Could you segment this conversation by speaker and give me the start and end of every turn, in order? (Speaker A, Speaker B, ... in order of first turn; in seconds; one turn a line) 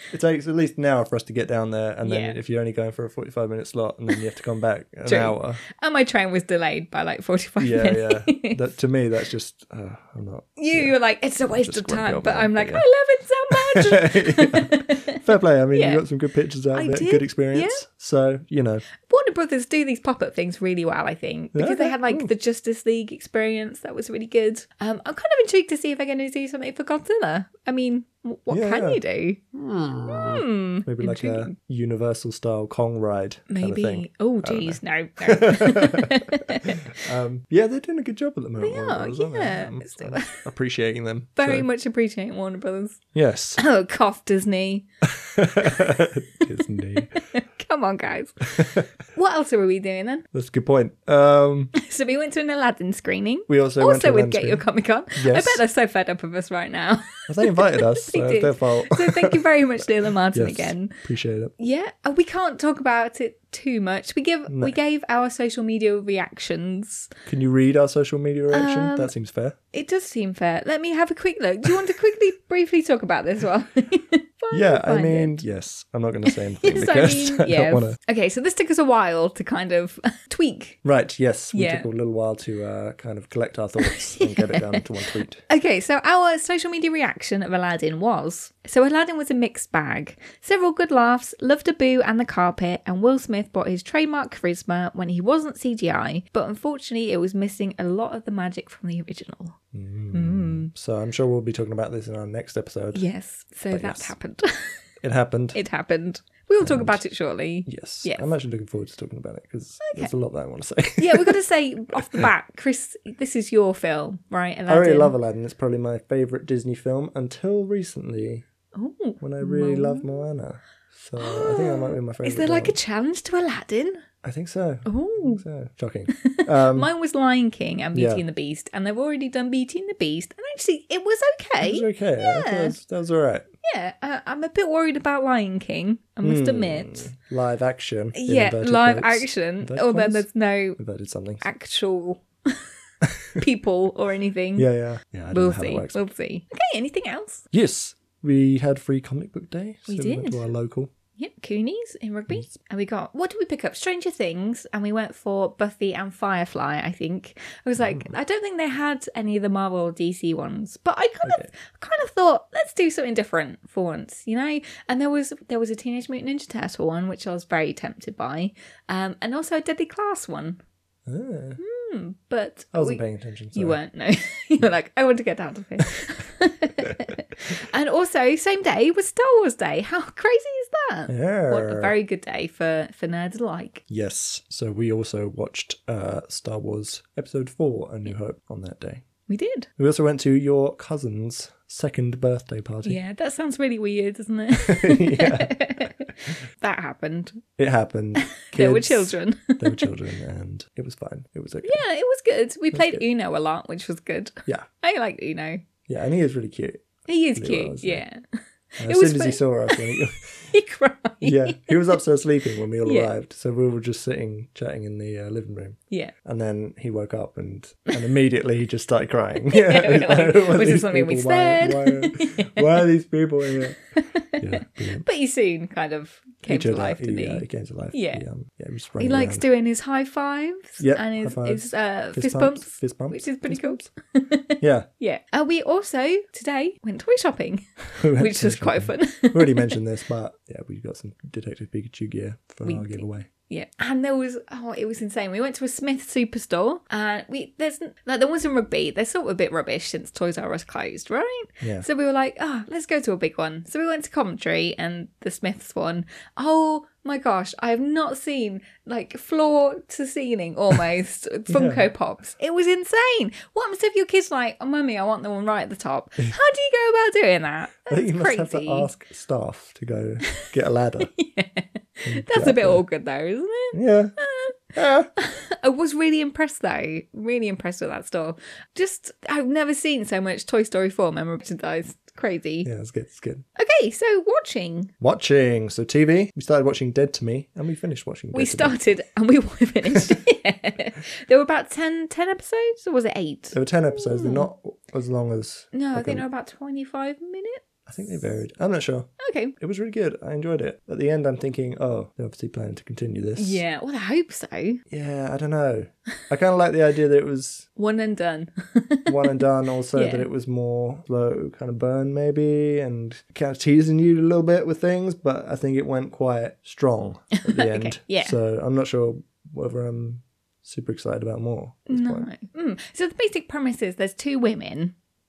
Speaker A: 0.1-5.6
Speaker B: 2.0-2.4
Speaker B: 5.0-8.6
Speaker A: 7.6-10.9
Speaker B: 10.6-15.2
Speaker A: 11.5-12.8
Speaker A: 13.5-18.8
Speaker B: 15.7-16.0
Speaker B: 16.7-17.8
Speaker B: 19.0-29.4
Speaker A: 21.5-22.3
Speaker A: 28.5-29.0
Speaker A: 29.6-41.6
Speaker B: 29.9-31.5
Speaker B: 33.5-36.9
Speaker B: 38.6-40.4
Speaker B: 41.4-44.9
Speaker A: 43.1-43.6
Speaker A: 45.1-47.2
Speaker B: 45.6-45.9
Speaker B: 47.0-48.5
Speaker A: 48.5-48.9
Speaker B: 49.1-50.2
Speaker A: 50.3-51.7
Speaker B: 51.8-61.0
Speaker A: 53.5-55.6
Speaker A: 57.3-59.4
Speaker A: 60.3-61.5
Speaker B: 61.6-67.1
Speaker A: 64.5-64.7
Speaker A: 67.2-69.6
Speaker B: 68.5-69.1
Speaker B: 69.7-75.4
Speaker A: 74.5-78.0
Speaker B: 76.3-80.8
Speaker A: 80.8-85.4
Speaker B: 81.5-81.9
Speaker B: 83.8-84.8
Speaker B: 85.5-99.6
Speaker A: 99.7-103.0
Speaker B: 100.1-100.7
Speaker B: 102.9-104.8
Speaker A: 103.7-104.1
Speaker A: 105.0-105.6
Speaker B: 105.5-108.3
Speaker A: 106.6-107.0
Speaker A: 107.7-111.4
Speaker B: 109.8-110.1
Speaker B: 111.0-115.1
Speaker A: 112.0-112.3
Speaker A: 114.7-118.4
Speaker B: 118.7-120.0
Speaker A: 119.2-122.8
Speaker B: 121.2-124.0
Speaker A: 124.2-126.9
Speaker B: 124.8-125.4
Speaker B: 126.1-132.7
Speaker A: 127.9-128.2
Speaker A: 131.6-133.4
Speaker B: 133.6-137.1
Speaker A: 136.2-140.2
Speaker B: 138.2-140.8
Speaker A: 140.8-141.4
Speaker B: 141.4-142.7
Speaker A: 143.0-143.4
Speaker B: 143.4-144.7
Speaker A: 144.6-146.0
Speaker B: 145.3-147.4
Speaker A: 147.5-150.9
Speaker B: 149.9-150.5
Speaker B: 151.2-170.6
Speaker A: 157.8-158.1
Speaker A: 171.1-171.6
Speaker B: 171.6-173.0
Speaker A: 172.7-173.8
Speaker B: 173.5-183.8
Speaker A: 181.1-181.9
Speaker A: 183.9-189.0
Speaker B: 189.3-189.7
Speaker A: 189.8-193.0
Speaker B: 192.8-197.4
Speaker A: 194.6-195.9
Speaker A: 197.6-201.8
Speaker B: 198.2-199.9
Speaker B: 201.6-205.6
Speaker A: 202.7-203.0
Speaker A: 205.9-208.0
Speaker B: 207.1-211.9
Speaker A: 208.8-210.4
Speaker A: 211.2-223.8
Speaker B: 212.8-213.1
Speaker B: 219.5-222.8
Speaker B: 224.0-228.2
Speaker A: 224.4-225.0
Speaker A: 226.5-229.4
Speaker B: 229.0-239.8
Speaker A: 230.8-233.8
Speaker A: 234.6-234.9
Speaker A: 238.0-243.3
Speaker B: 242.6-268.9
Speaker A: 251.6-251.8
Speaker A: 261.5-261.9
Speaker A: 267.9-271.1
Speaker B: 271.0-274.6
Speaker A: 272.1-272.8
Speaker A: 273.7-274.1
Speaker A: 274.7-275.1
Speaker B: 275.2-282.7
Speaker A: 282.6-283.4
Speaker B: 283.6-284.9
Speaker A: 285.0-288.8
Speaker B: 288.3-294.5
Speaker A: 289.9-290.1
Speaker A: 293.5-296.2
Speaker B: 295.7-297.6
Speaker A: 297.9-303.6
Speaker B: 299.2-299.5
Speaker B: 303.4-304.8
Speaker A: 304.9-307.7
Speaker B: 307.8-310.3
Speaker A: 309.1-322.3
Speaker B: 317.3-318.3
Speaker B: 321.9-324.9